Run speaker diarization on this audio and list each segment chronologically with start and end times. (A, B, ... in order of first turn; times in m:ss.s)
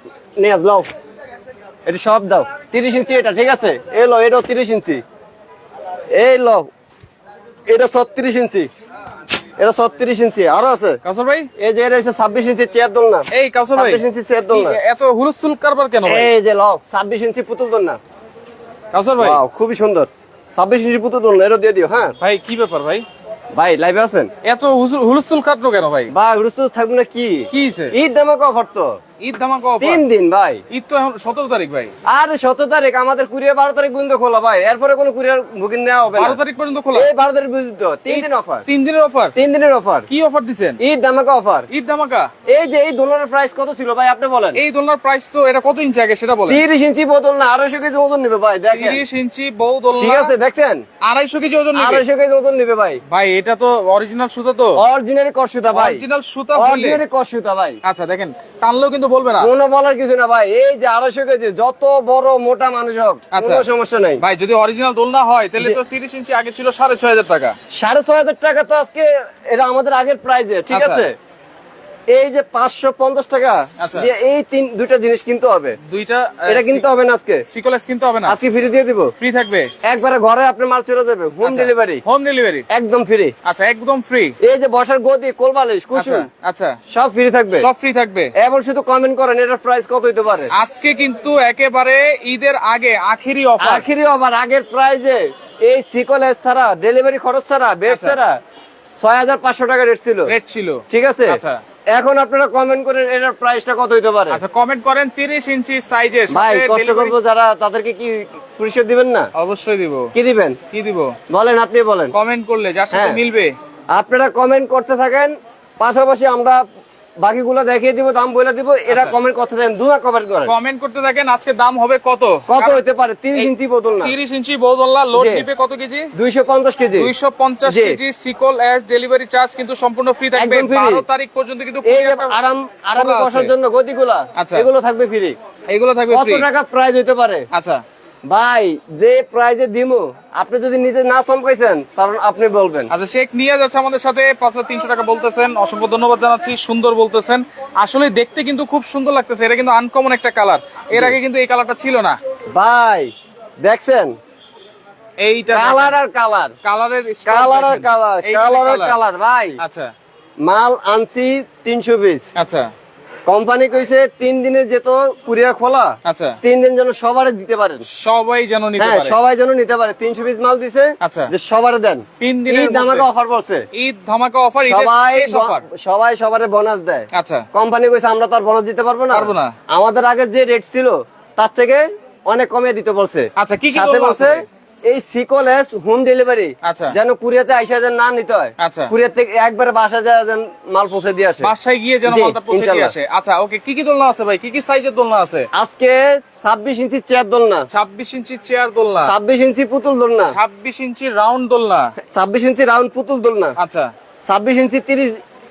0:00.4-0:00.9 A
0:01.8-0:05.0 A
0:06.2-0:06.7 A
0:07.7-0:08.7 A
0:09.6-0:11.0 A
0:11.0-0:11.5 B
0:11.6-0:14.8 A
0:13.3-0:16.3 B
0:16.0-0:18.0 A
0:18.9-0:19.4 B
0:19.2-0:22.1 A
0:22.2-0:23.0 B
0:23.5-0:24.3 A
0:24.4-0:26.1 B
0:26.1-0:28.9 A
0:27.5-0:27.9 B
0:29.2-0:30.0 B
0:29.8-0:30.6 A
0:30.7-0:31.9 B
0:32.1-0:36.4 A
0:36.1-0:37.1 B
0:36.9-0:38.6 A
0:38.1-0:39.3 B
0:39.4-0:40.1 A
0:40.1-0:40.8 B
0:40.8-0:41.7 A
0:41.7-0:42.3 B
0:42.5-0:44.6 A
0:44.6-0:46.6 B
0:46.5-0:49.0 A
0:48.7-0:50.3 B
0:49.9-0:50.8 A
0:51.0-0:52.0 B
0:51.7-0:53.0 A
0:53.1-0:54.8 B
0:54.8-0:56.0 A
0:55.7-0:57.0 B
0:56.5-0:57.8 A
0:57.8-0:59.5 B
0:59.4-1:04.2 A
1:03.3-1:03.6 B
1:04.2-1:07.5 B
1:07.8-1:11.1 A
1:10.7-1:11.1 B
1:12.1-1:15.8 A
1:13.8-1:14.1 B
1:15.8-1:16.8 B
1:16.5-1:17.4 A
1:17.5-1:18.4 B
1:18.2-1:19.1 A
1:19.2-1:19.7 B
1:19.8-1:22.0 A
1:21.4-1:22.6 B
1:22.7-1:23.3 A
1:23.4-1:24.3 B
1:24.4-1:26.3 A
1:25.9-1:26.8 B
1:26.9-1:27.7 A
1:27.6-1:28.3 B
1:28.4-1:30.5 A
1:30.5-1:33.8 B
1:33.6-1:38.4 A
1:37.9-1:38.2 B
1:39.0-1:40.3 A
1:40.3-1:41.6 B
1:40.9-1:41.4 A
1:41.9-1:44.4 A
1:44.3-1:47.1 B
1:46.3-1:49.3 A
1:49.4-1:50.1 B
1:50.1-1:50.6 A
1:50.7-1:51.1 B
1:51.3-1:52.1 A
1:52.1-1:53.5 B
1:52.9-1:53.2 A
1:53.9-1:56.6 A
1:57.2-2:00.5 A
1:58.9-1:59.1 B
2:00.5-2:02.8 B
2:02.5-2:04.1 A
2:04.0-2:06.1 B
2:05.1-2:05.4 A
2:06.1-2:07.1 A
2:07.0-2:12.4 B
2:07.6-2:08.0 A
2:10.3-2:11.0 A
2:11.8-2:15.4 A
2:13.0-2:13.5 B
2:14.4-2:14.7 B
2:15.7-2:16.5 B
2:16.1-2:17.5 A
2:17.5-2:17.8 B
2:18.3-2:22.9 A
2:22.9-2:32.2 B
2:32.5-2:33.1 A
2:33.6-2:34.1 A
2:35.2-2:36.0 B
2:35.5-2:36.5 A
2:36.6-2:39.0 B
2:37.2-2:39.6 A
2:39.6-2:39.9 B
2:40.4-2:42.2 A
2:42.4-2:42.7 B
2:43.3-2:47.8 A
2:46.0-2:46.4 B
2:47.9-2:49.2 B
2:48.8-2:53.6 A
2:51.0-2:51.3 B
2:52.2-2:53.0 B
2:53.7-2:55.6 B
2:54.6-3:11.5 A
2:57.1-2:57.4 B
2:59.1-2:59.5 B
3:03.4-3:04.4 B
3:06.6-3:06.9 B
3:08.6-3:08.9 B
3:11.4-3:15.5 B
3:12.1-3:12.9 A
3:15.5-3:17.7 A
3:17.7-3:19.1 B
3:19.0-3:20.4 A
3:20.3-3:21.9 B
3:22.1-3:23.6 A
3:23.6-3:23.9 B
3:24.3-3:25.2 A